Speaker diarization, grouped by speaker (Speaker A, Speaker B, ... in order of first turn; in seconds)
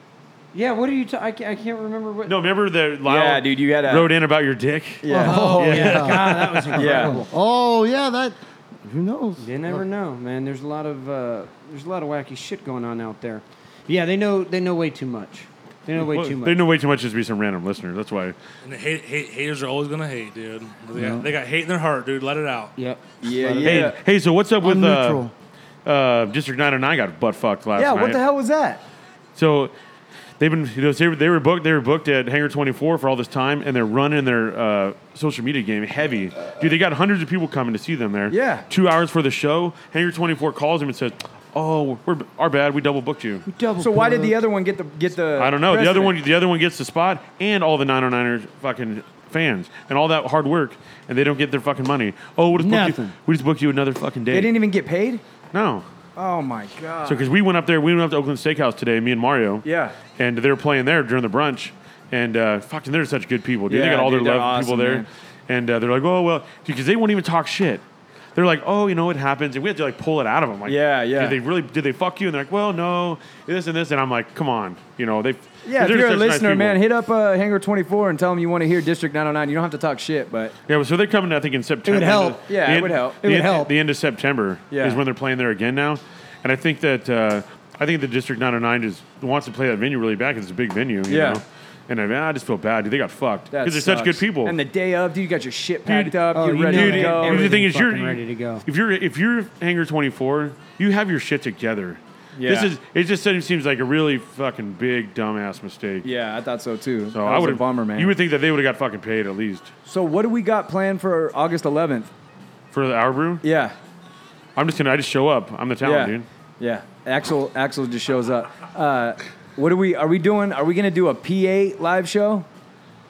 Speaker A: 0.5-2.4, 5.1-7.3, 9.4-16.6, 22.8-23.7, 43.5-44.4, 52.5-53.1, 81.8-82.4, 83.2-83.7, 96.3-98.6
Speaker B: 2.3-5.1, 5.6-6.2, 16.0-18.4, 23.6-25.3, 25.9-28.2, 29.4-29.7, 30.4-43.5, 45.4-54.6, 55.5-55.9, 57.0-59.6, 60.2-67.8, 68.3-76.8, 80.7-94.6, 95.9-106.1, 107.1-109.7, 112.7-113.4, 114.6-116.3
Speaker C: 3.1-4.2, 5.0-6.1, 6.7-7.2, 23.2-24.0, 27.8-28.8, 38.3-38.7, 43.8-46.2, 54.3-55.2, 56.1-57.3, 59.6-60.0, 63.7-65.1, 70.7-71.4, 75.7-80.5, 82.5-83.2, 84.7-85.0, 91.1-91.4, 93.5-97.6, 102.4-102.7, 106.0-108.2, 109.9-112.1, 113.4-113.8, 115.8-122.5
Speaker D: 5.1-9.8, 20.9-21.3, 23.5-23.8, 24.6-25.3
Speaker E: 18.6-22.7